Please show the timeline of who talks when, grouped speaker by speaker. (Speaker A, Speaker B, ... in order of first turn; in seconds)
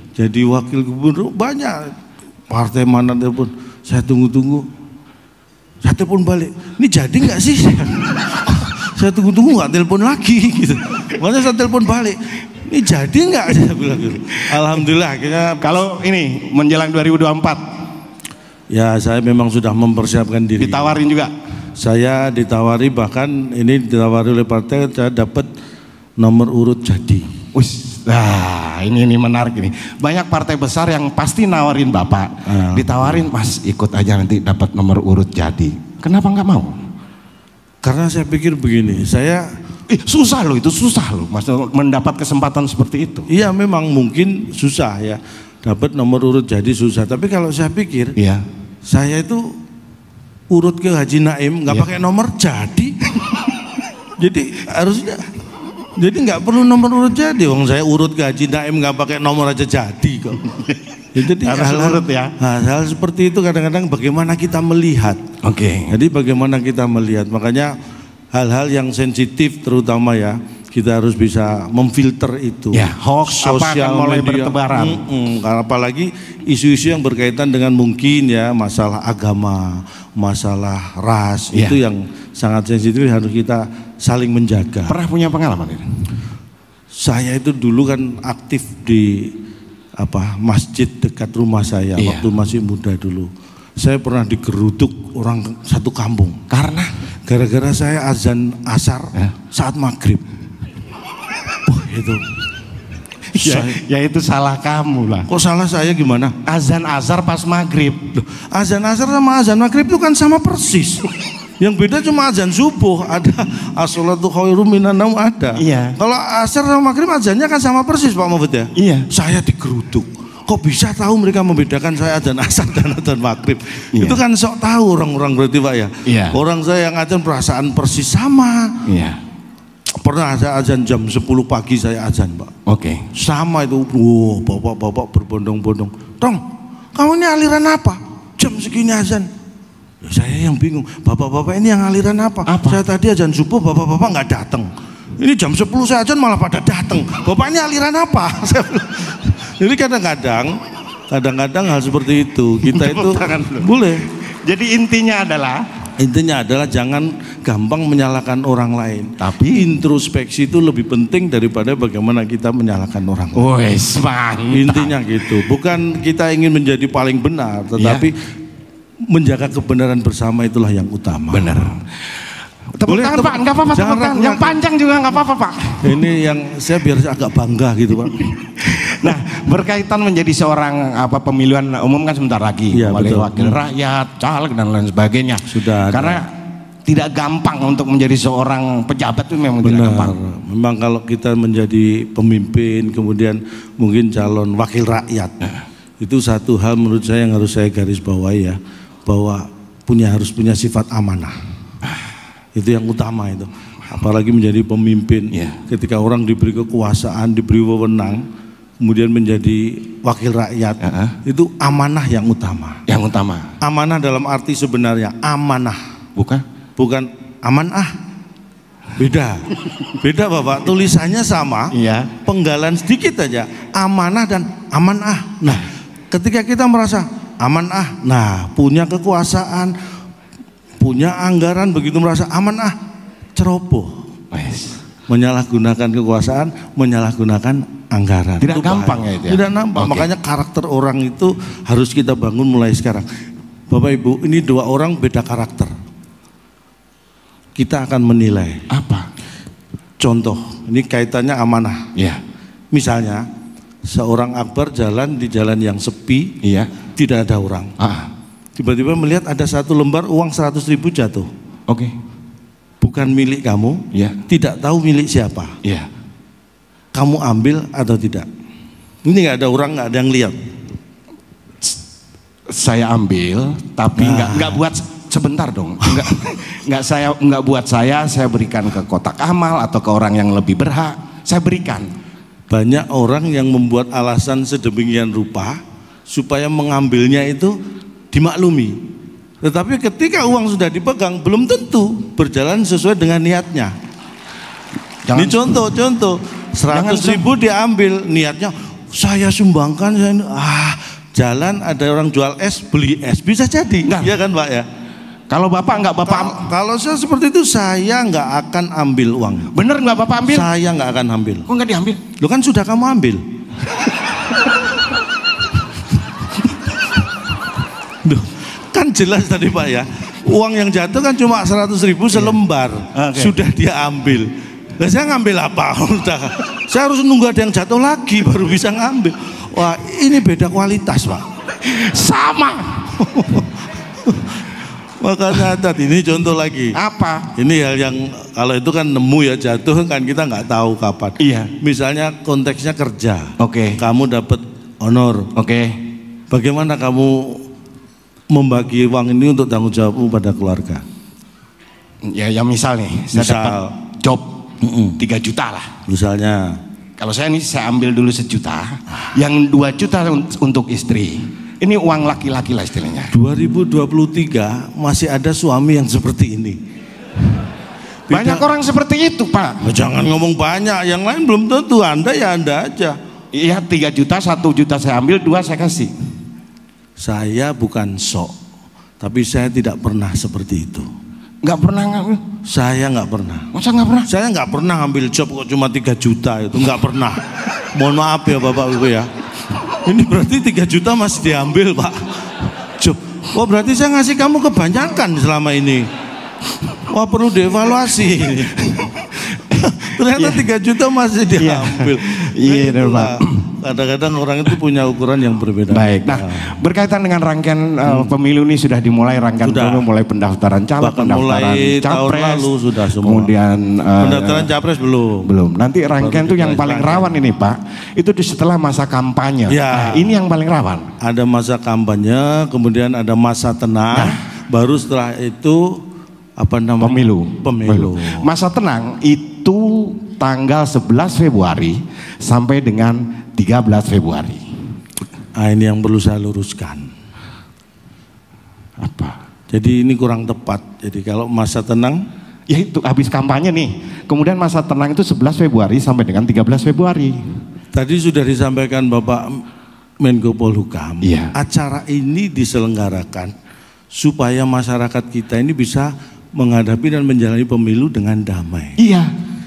Speaker A: 0.1-1.9, 2.5-4.7, 5.8-15.7, 18.7-21.0, 21.8-25.5, 26.2-27.3, 32.5-33.2, 37.8-39.5, 43.3-48.1, 48.9-49.5, 50.5-53.1, 54.2-55.3, 56.0-60.4, 61.1-65.2, 65.9-67.8, 68.3-84.9, 87.0-89.3, 90.0-96.4, 97.2-100.2, 101.6-102.3, 103.3-103.8, 105.3-106.3, 108.1-111.0, 111.6-128.9, 130.0-132.5, 133.1-136.4, 136.9-139.3, 140.0-154.0, 156.0-163.5, 164.5-168.1, 169.1-171.7, 172.8-174.6, 175.8-178.3, 182.7-183.6, 185.5-186.2, 189.6-195.3, 196.0-201.3, 202.6-208.2, 208.8-212.8, 213.6-215.8, 216.8-217.9, 218.9-229.7, 230.8-232.7, 233.3-233.9, 235.1-243.1, 243.7-245.7, 247.6-248.6, 250.0-251.9, 252.7-253.2, 253.8-256.4, 256.9-257.7, 258.6-261.3, 262.8-265.5, 266.9-268.3, 269.1-270.3, 273.9-274.6, 275.8-276.2, 282.5-287.6, 288.1-288.8, 289.4-293.7, 295.1-304.6, 306.0-309.5, 310.3-311.5, 312.2-313.2, 318.0-331.2, 332.9-336.8, 337.3-345.3, 346.3-347.4, 348.3-350.8, 353.1-353.7, 354.6-355.0, 355.9-356.6, 363.1-366.6, 368.1-368.4, 369.6-373.0, 377.0-378.3, 379.0-380.9, 382.4-383.5, 384.1-389.1, 389.7-392.1, 392.8-395.9, 396.8-399.0, 399.5-406.6, 407.9-408.1, 409.4-409.9, 410.8-413.3, 414.0-415.3, 416.0-417.1, 419.5-420.1, 421.0-425.8, 426.4-428.2, 435.4-436.9, 439.5-442.0, 447.7-449.4, 450.0-453.3, 453.9-458.8
Speaker B: 15.6-17.6, 20.6-21.3, 27.5-36.8, 39.9-43.3, 48.1-48.5, 60.5-60.7, 61.4-62.3, 65.4-65.9, 72.7-75.0, 81.5-81.8, 84.9-85.8, 92.0-92.3, 96.5-96.9, 103.3-105.3, 106.4-108.0, 115.5-116.0, 118.8-119.1, 123.9-124.2, 126.0-126.4, 128.8-129.2, 132.7-133.1, 142.4-142.8, 152.6-153.7, 154.4-155.6, 159.2-159.7, 163.3-165.0, 167.8-168.1, 171.3-171.9, 172.7-176.0, 178.3-186.3, 186.8-190.2, 205.3-205.6, 210.8-211.2, 212.9-213.5, 216.2-216.4, 219.6-219.9, 221.7-222.1, 234.3-234.8, 238.4-240.1, 248.7-249.1, 251.9-252.2, 256.4-256.7, 257.8-258.1, 261.7-261.9, 265.6-265.9, 272.5-281.9, 295.1-295.6, 296.7-297.3, 303.9-304.1, 305.3-306.4, 309.5-310.5, 311.5-312.0, 322.1-322.4, 322.9-323.4, 331.6-332.9, 336.7-337.3, 341.2-341.5, 343.4-343.8, 345.3-345.8, 352.0-354.3, 355.0-355.7, 357.0-363.1, 368.1-369.6, 373.3-375.9, 381.4-382.2, 383.5-384.1, 399.1-400.4, 401.4-403.4, 405.7-414.5, 415.2-420.9, 423.9-424.2, 426.8-434.4, 438.8-439.2, 442.5-447.2, 451.0-451.3, 458.8-459.1